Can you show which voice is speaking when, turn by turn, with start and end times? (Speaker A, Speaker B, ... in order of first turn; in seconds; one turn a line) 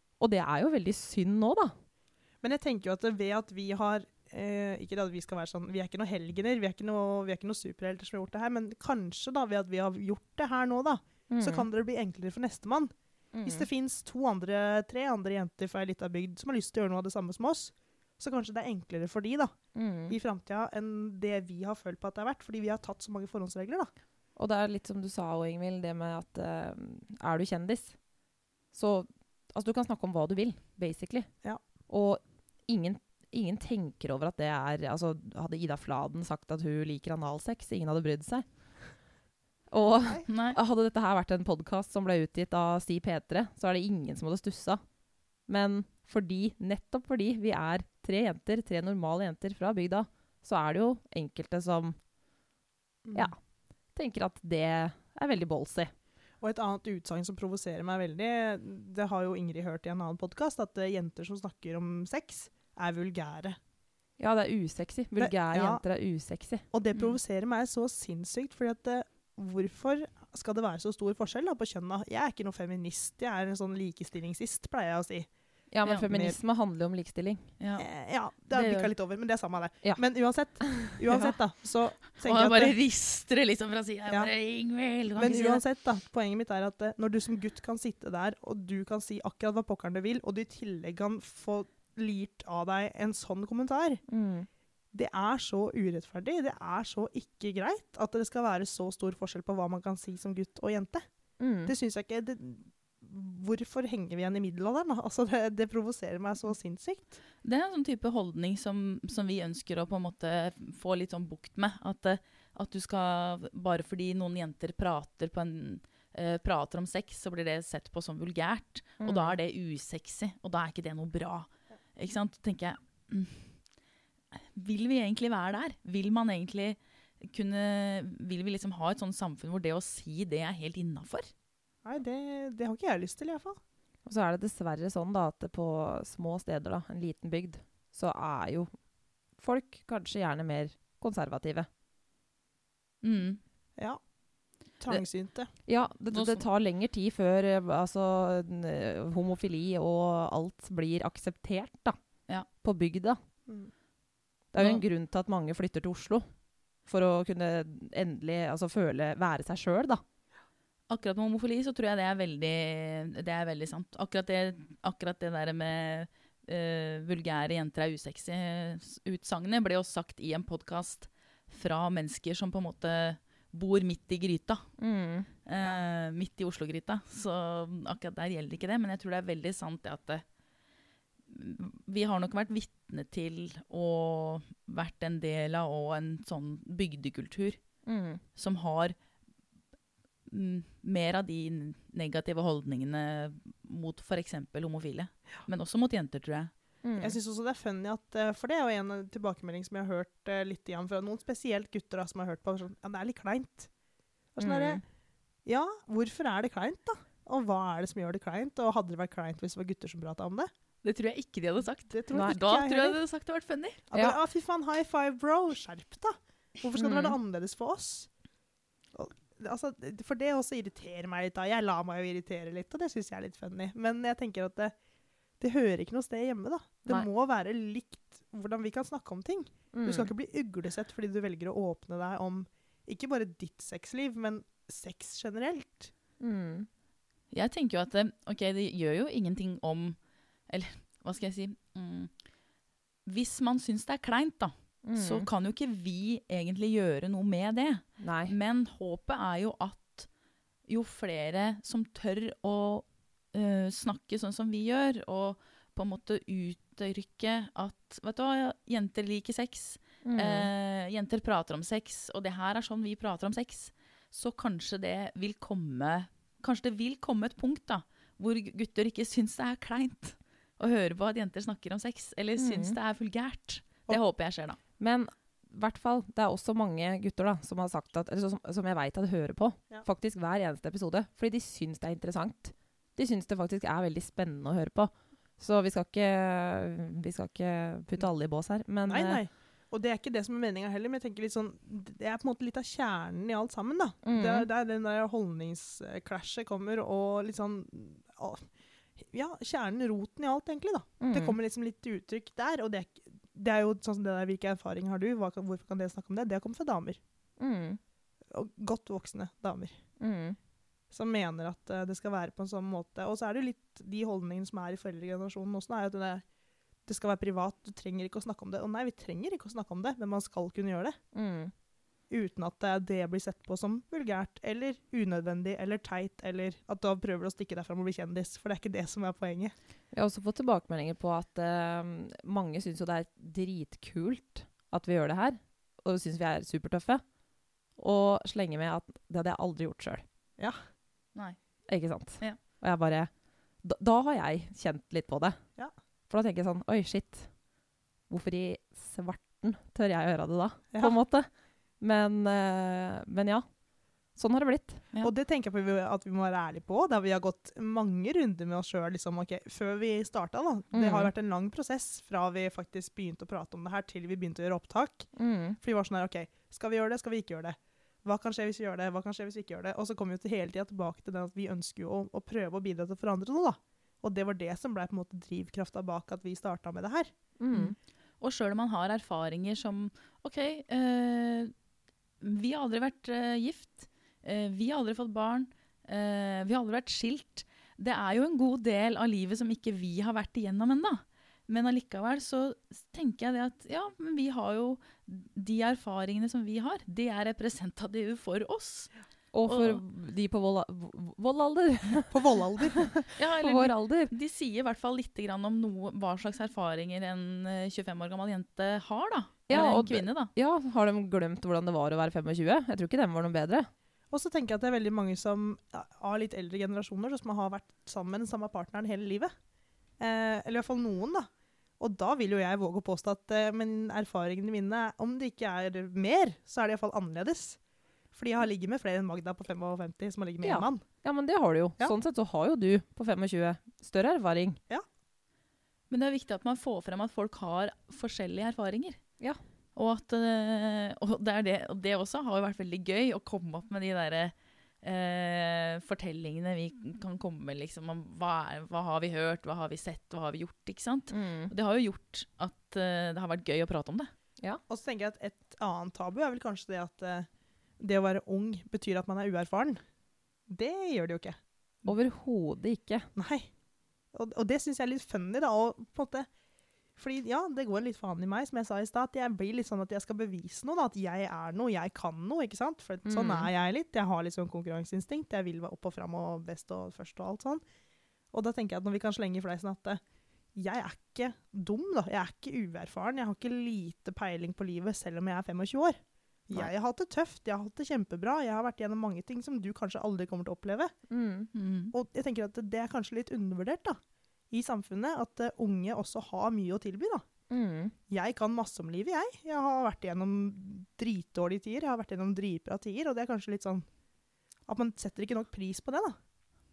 Speaker A: 0.2-1.7
Speaker B: 2.4-12.9
Speaker A: 11.3-11.7
Speaker A: 13.3-13.7
Speaker B: 13.4-19.5
Speaker A: 19.7-20.2
Speaker B: 20.1-23.9
Speaker A: 24.4-28.0
Speaker A: 28.7-31.3
Speaker A: 31.9-38.5
Speaker A: 39.7-44.8
Speaker C: 40.3-40.6
Speaker A: 45.5-52.0
Speaker B: 53.0-53.3
Speaker A: 53.9-55.9
Speaker B: 56.4-63.6
Speaker A: 64.2-66.6
Speaker B: 65.2-65.8
Speaker B: 66.7-75.3
Speaker A: 75.7-77.5
Speaker B: 76.1-76.4
Speaker C: 77.6-77.9
Speaker B: 77.8-82.8
Speaker C: 78.5-78.9
Speaker A: 80.6-81.2
Speaker C: 82.2-85.6
Speaker B: 85.2-94.0
Speaker A: 94.1-94.5
Speaker B: 94.9-101.0
Speaker A: 101.4-101.7
Speaker B: 101.7-107.2
Speaker C: 107.4-123.5
Speaker A: 119.0-119.4
Speaker C: 124.3-131.3
Speaker B: 131.8-133.6
Speaker A: 134.0-138.7
Speaker A: 139.4-141.7
Speaker C: 143.0-143.4
Speaker B: 144.8-145.5
Speaker A: 145.7-152.0
Speaker C: 146.1-146.4
Speaker A: 152.6-153.2
Speaker B: 153.5-153.7
Speaker A: 154.5-156.2
Speaker C: 154.6-154.8
Speaker A: 156.9-160.0
Speaker C: 160.9-174.7
Speaker A: 174.8-175.3
Speaker C: 175.4-180.2
Speaker C: 181.3-187.6
Speaker A: 187.8-188.2
Speaker C: 188.3-188.9
Speaker C: 190.3-196.5
Speaker A: 196.8-197.2
Speaker B: 197.0-203.7
Speaker B: 204.3-204.8
Speaker A: 204.4-204.8
Speaker B: 205.4-210.5
Speaker C: 210.8-213.8
Speaker B: 211.9-213.0
Speaker B: 213.9-218.1
Speaker A: 216.8-217.1
Speaker B: 218.9-224.7
Speaker B: 225.4-235.9
Speaker A: 229.7-230.1
Speaker A: 236.2-236.7
Speaker C: 237.3-240.0
Speaker C: 240.5-242.1
Speaker C: 243.1-250.1
Speaker A: 244.8-245.3
Speaker A: 248.0-248.3
Speaker C: 250.7-274.6
Speaker A: 260.0-260.5
Speaker A: 272.4-272.8
Speaker A: 274.8-289.2
Speaker B: 288.9-307.0
Speaker A: 294.0-294.5
Speaker A: 301.0-301.4
Speaker A: 307.4-307.8
Speaker B: 308.3-309.8
Speaker A: 310.0-310.4
Speaker B: 310.9-316.2
Speaker B: 316.9-321.0
Speaker A: 321.1-321.5
Speaker B: 322.1-329.5
Speaker A: 329.9-337.0
Speaker A: 337.8-340.0
Speaker A: 341.7-343.1
Speaker A: 343.6-345.4
Speaker A: 346.1-347.3
Speaker A: 348.1-351.3
Speaker A: 351.8-353.4
Speaker A: 354.1-354.8
Speaker B: 355.0-365.1
Speaker A: 360.7-361.1
Speaker A: 365.1-365.6
Speaker B: 365.6-377.1
Speaker A: 377.4-377.7
Speaker C: 377.5-381.5
Speaker C: 382.2-398.9
Speaker A: 399.3-402.1
Speaker C: 399.5-399.8
Speaker B: 402.1-402.9
Speaker A: 402.7-404.1
Speaker C: 403.2-410.3
Speaker A: 409.5-413.7
Speaker B: 414.1-419.3
Speaker B: 420.0-421.3
Speaker B: 421.8-427.6
Speaker B: 428.1-430.8
Speaker A: 430.4-434.6
Speaker C: 435.9-439.0
Speaker C: 439.8-454.1
Speaker A: 451.1-451.5
Speaker B: 454.7-457.3
Speaker B: 457.8-459.8
Speaker B: 460.5-461.4
Speaker A: 461.8-463.1
Speaker B: 463.1-463.5
Speaker B: 464.1-466.3
Speaker B: 466.9-477.6
Speaker A: 473.1-473.5
Speaker B: 478.3-480.0
Speaker B: 480.5-490.9
Speaker A: 491.1-491.5
Speaker C: 491.5-491.9
Speaker B: 491.9-494.0
Speaker B: 494.5-497.2
Speaker A: 497.5-497.9
Speaker B: 498.1-503.9
Speaker B: 504.7-506.1